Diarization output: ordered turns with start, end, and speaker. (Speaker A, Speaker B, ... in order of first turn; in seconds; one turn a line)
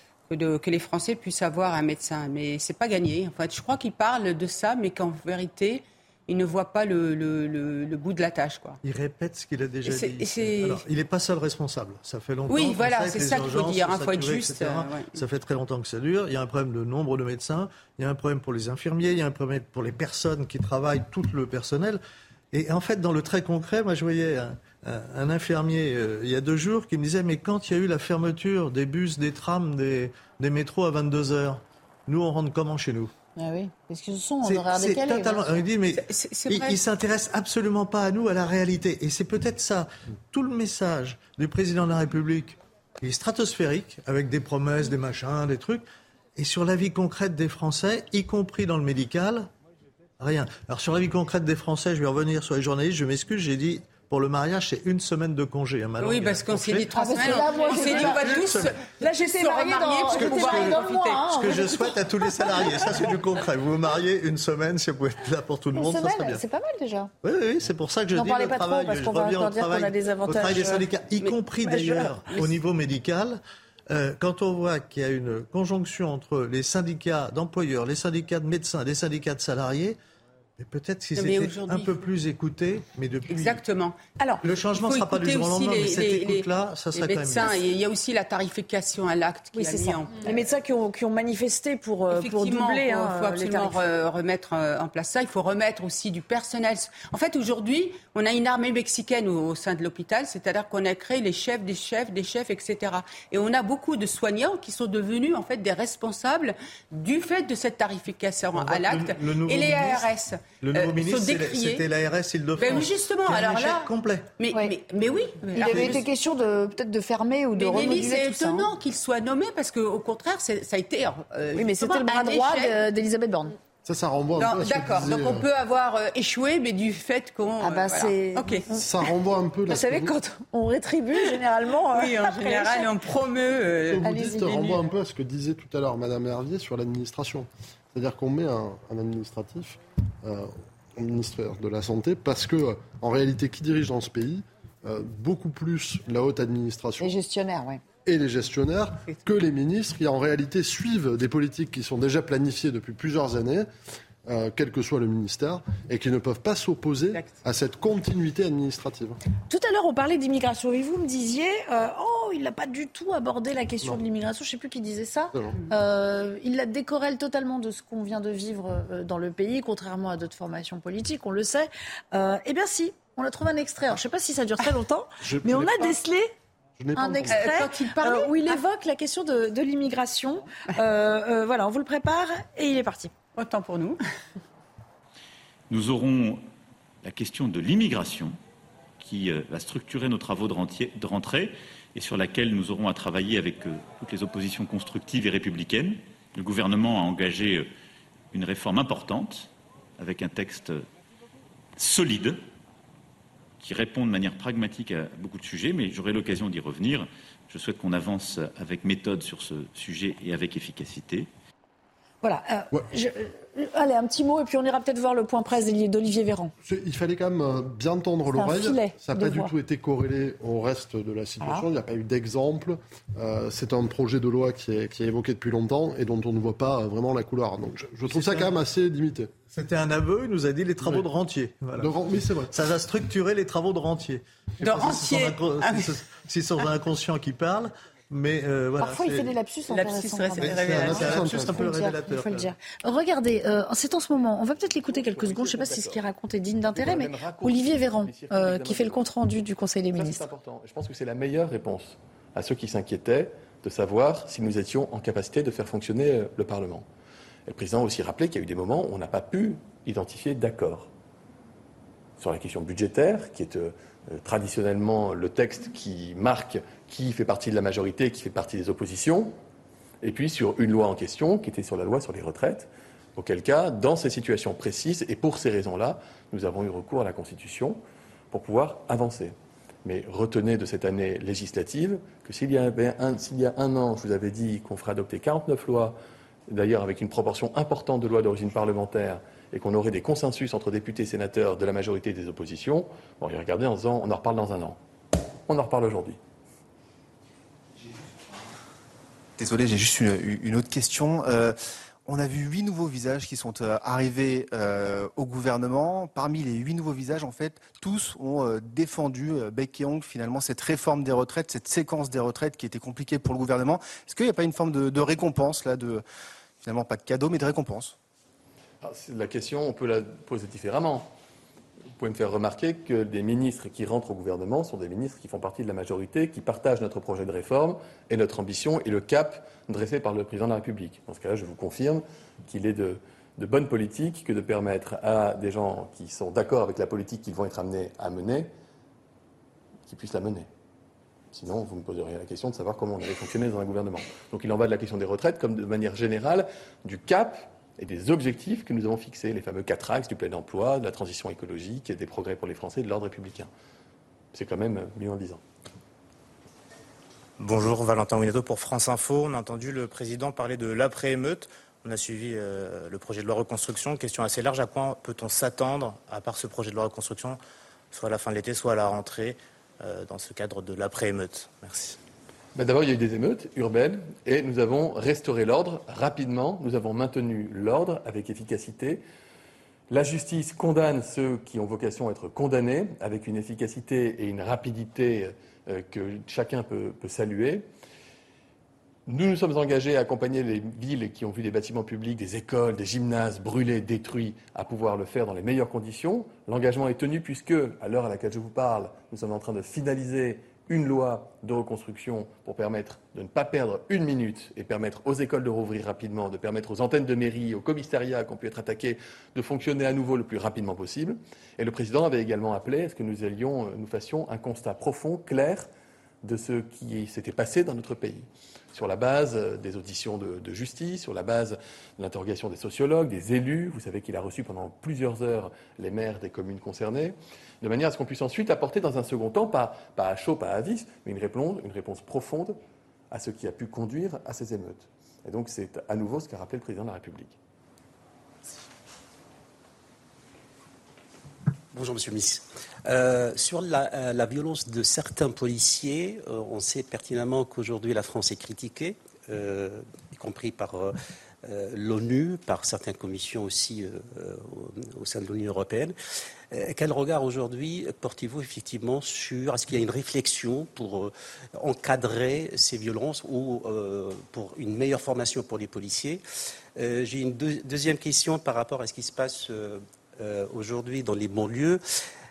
Speaker A: 0.3-8.8
Speaker B: 8.8-22.0
Speaker A: 9.8-10.8
Speaker A: 12.5-15.2
Speaker B: 22.5-33.1
Speaker C: 33.4-35.6
Speaker B: 34.4-45.8
Speaker A: 35.9-36.8
Speaker B: 46.4-49.5
Speaker B: 50.2-58.8
Speaker A: 56.0-61.8
Speaker C: 56.9-62.9
Speaker B: 60.1-66.4
Speaker C: 65.7-67.1
Speaker B: 67.2-80.0
Speaker C: 68.1-70.9
Speaker C: 71.6-72.2
Speaker B: 80.6-83.6
Speaker A: 81.2-81.9
Speaker A: 83.3-84.0
Speaker B: 84.4-87.6
Speaker A: 84.7-90.5
Speaker C: 89.5-93.8
Speaker A: 92.1-111.8
Speaker B: 108.5-110.1
Speaker B: 110.6-114.3
Speaker A: 112.6-116.1
Speaker C: 115.5-118.7
Speaker A: 117.5-122.8
Speaker C: 121.5-123.5
Speaker D: 123.8-125.5
Speaker A: 124.4-128.7
Speaker C: 127.6-128.8
Speaker D: 128.7-130.1
Speaker C: 129.7-132.9
Speaker A: 131.9-134.8
Speaker D: 133.9-147.2
Speaker C: 134.0-134.7
Speaker C: 147.0-147.8
Speaker D: 148.0-153.7
Speaker D: 154.2-159.2
Speaker A: 157.1-157.4
Speaker C: 159.5-176.3
Speaker D: 175.2-175.9
Speaker D: 176.8-177.4
Speaker C: 176.9-183.1
Speaker A: 177.3-178.6
Speaker A: 183.3-184.0
Speaker E: 185.7-186.4
Speaker E: 187.0-188.3
Speaker E: 189.0-197.7
Speaker E: 198.3-200.8
Speaker E: 201.8-202.4
Speaker E: 203.6-211.3
Speaker C: 212.2-216.5
Speaker D: 216.7-229.3
Speaker C: 218.3-219.5
Speaker C: 221.4-221.7
Speaker B: 228.1-228.5
Speaker B: 229.5-231.9
Speaker D: 231.8-232.5
Speaker B: 232.5-239.3
Speaker A: 234.6-235.9
Speaker C: 238.8-250.2
Speaker A: 239.7-241.0
Speaker B: 240.4-242.5
Speaker D: 240.7-241.7
Speaker F: 244.8-246.0
Speaker F: 246.7-249.1
Speaker F: 249.9-256.9
Speaker F: 257.5-260.9
Speaker F: 262.2-269.4
Speaker F: 270.0-294.8
Speaker F: 295.5-296.2
Speaker G: 299.4-316.0
Speaker G: 316.6-317.9
Speaker F: 318.8-321.1
Speaker F: 322.0-338.5
Speaker F: 339.9-340.5
Speaker F: 341.3-353.5
Speaker F: 354.3-355.4
Speaker H: 357.4-367.4
Speaker H: 367.9-372.0
Speaker F: 372.5-379.0
Speaker F: 379.9-387.6
Speaker F: 389.1-415.7
Speaker F: 416.2-432.6
Speaker F: 433.1-437.4
Speaker I: 441.7-455.9
Speaker I: 456.5-466.2
Speaker I: 466.8-471.8